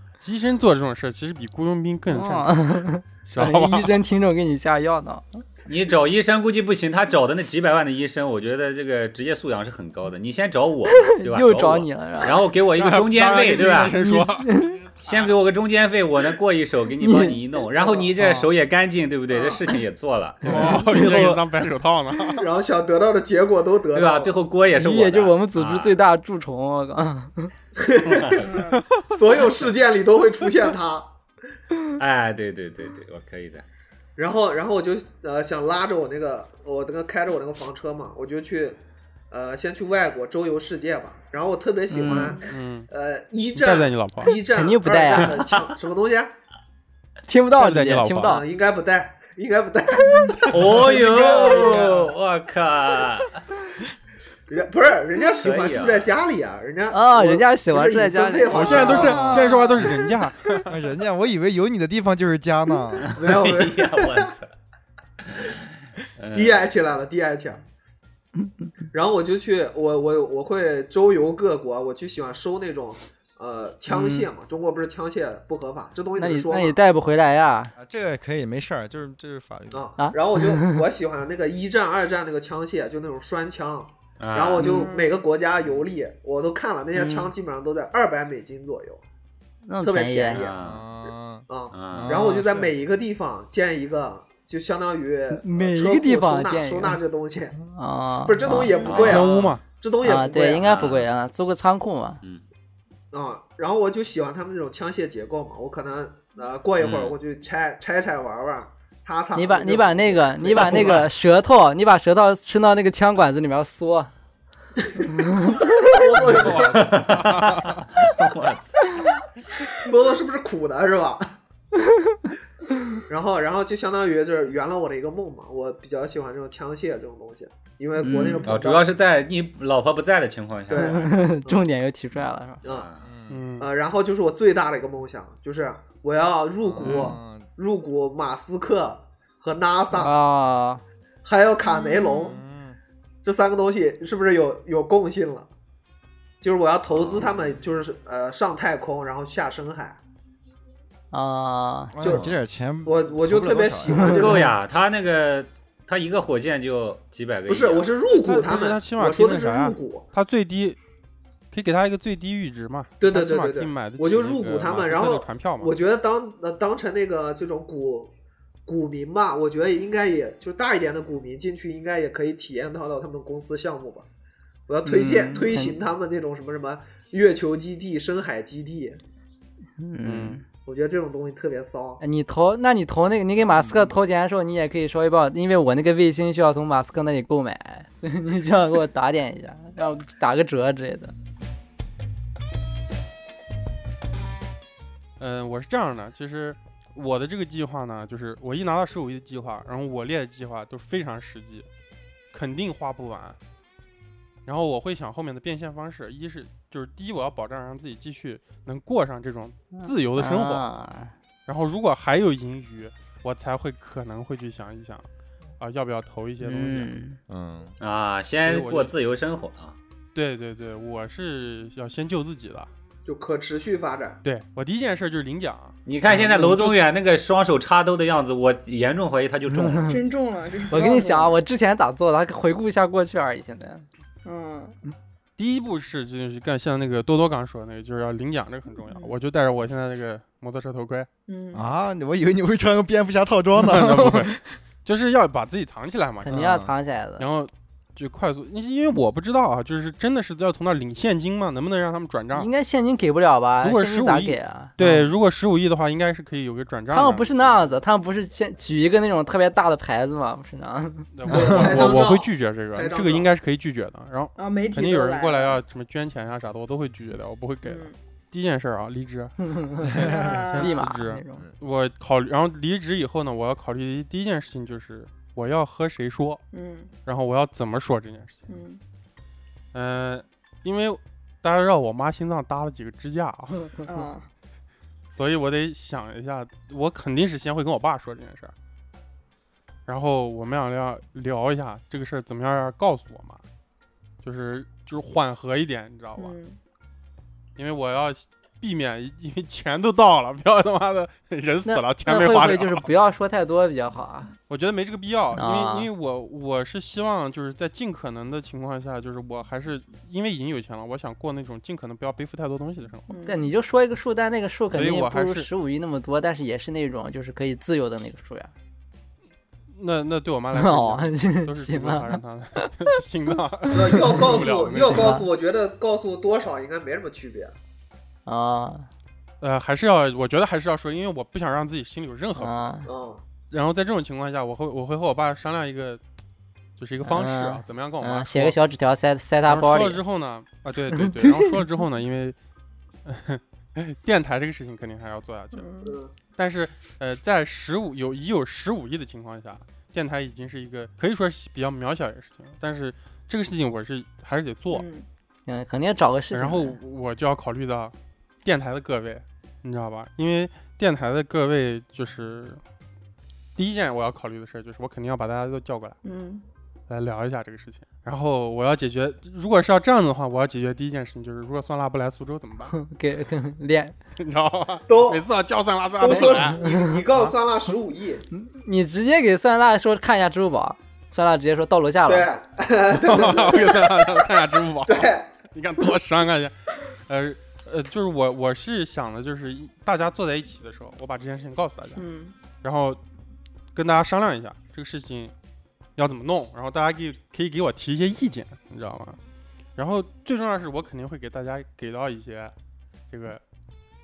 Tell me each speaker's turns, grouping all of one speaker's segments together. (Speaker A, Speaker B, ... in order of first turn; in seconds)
Speaker A: 0.2-2.8, 3.3-4.0, 12.8-15.3, 20.4-22.5, 28.7-29.0, 42.5-42.9, 43.5-44.4, 47.5-48.4, 58.5-60.8, 98.9-99.6, 116.3-117.9, 133.3-133.7, 158.1-160.8, 161.5-165.7, 180.0-180.4, 195.2-201.7, 202.3-203.4, 204.4-210.7, 211.5-215.1, 215.6-216.9, 218.4-218.9, 220.2-222.7, 224.2-226.7, 235.4-241.1, 243.6-246.6, 247.2-252.5, 253.6-257.5, 261.1-276.4, 277.1-278.4, 279.7-283.8, 285.1-288.5, 289.9-293.4, 294.2-296.4, 297.6-302.9, 304.5-313.1, 314.7-315.5, 319.8-325.2, 329.4-332.6, 333.5-336.0, 336.8-338.6, 339.5-342.4, 343.1-345.7, 346.4-354.9, 356.3-362.6, 363.6-366.0, 366.9-372.8, 374.2-377.3, 382.9-392.1, 392.6-393.0, 393.7-395.3, 396.0-399.2, 399.8-402.5, 403.1-403.4
Speaker B: 2.1-5.4, 11.0-12.4, 14.0-14.8, 17.0-17.4, 18.2-18.5, 24.8-27.5, 41.9-42.4, 44.5-45.4, 47.3-48.4, 56.9-59.6, 73.9-74.3, 76.2-77.7, 80.0-80.8, 84.6-84.8, 86.9-87.3, 89.7-90.4, 95.3-97.0, 97.6-98.8, 100.0-102.2, 109.3-114.1, 115.2-115.9, 128.0-128.5, 130.7-132.6, 136.8-137.2, 139.9-140.8, 151.1-151.9, 174.8-175.8, 179.8-180.4, 182.0-191.1, 209.7-211.1, 216.4-217.2, 229.5-229.9, 230.7-233.9, 246.2-247.3, 252.3-254.8, 256.9-261.6, 269.6-271.4, 301.6-304.3, 305.4-305.9, 313.3-318.5, 320.6-322.6, 324.9-325.3, 328.3-328.9, 332.4-332.9, 337.0-340.0, 341.2-341.5, 355.5-356.8, 372.7-373.9, 376.1-376.9, 378.3-382.3
Speaker C: 5.7-14.0, 15.0-21.4, 23.9-26.0, 28.1-28.5, 32.0-33.6, 50.5-53.4, 55.4-56.1, 63.0-64.5, 65.3-65.5, 66.2-66.7, 84.2-84.8, 90.3-90.9, 91.7-92.2, 98.8-99.6, 100.6-101.1, 106.8-107.2, 116.6-119.0, 128.4-131.1, 132.6-133.1, 146.9-147.3, 154.0-157.9, 217.8-219.8, 225.9-229.9
Speaker D: 17.8-18.1, 19.3-19.6, 22.4-24.4, 27.8-28.5, 29.1-31.1, 34.2-38.8, 39.3-46.3, 48.2-52.0, 54.5-59.6, 63.1-64.3, 66.3-67.6, 68.9-76.8, 79.7-89.0, 89.8-90.6, 91.5-97.6, 98.2-100.7, 103.1-111.1, 114.8-116.9, 119.8-121.2, 123.1-128.9, 130.7-131.6, 133.6-140.2, 141.2-142.4, 143.2-145.5, 146.4-150.0, 152.0-154.5, 157.5-160.1, 163.0-168.1, 168.7-174.1, 174.7-179.0, 180.7-182.0, 223.1-224.2, 261.3-263.3, 323.7-327.5, 332.9-333.2, 345.9-346.1, 374.9-375.2, 376.0-378.2, 382.1-384.3, 384.9-385.3
Speaker E: 28.4-28.8, 84.6-85.2, 98.7-99.1, 128.2-128.4, 141.6-142.4, 229.8-231.4, 234.2-234.8, 238.8-239.2, 241.3-241.6, 264.4-265.6, 267.6-268.0, 270.0-270.9, 276.5-276.9, 278.5-278.8, 283.8-284.3, 296.2-296.6, 313.1-313.5, 345.5-346.0, 354.7-355.1, 366.0-366.4, 392.0-392.4
Speaker F: 60.7-63.2, 77.8-79.9, 90.6-92.6, 133.0-133.4, 136.6-137.5, 142.2-142.8, 151.9-154.3, 183.5-183.9, 217.3-217.8, 241.5-244.3, 246.3-246.7, 261.3-261.9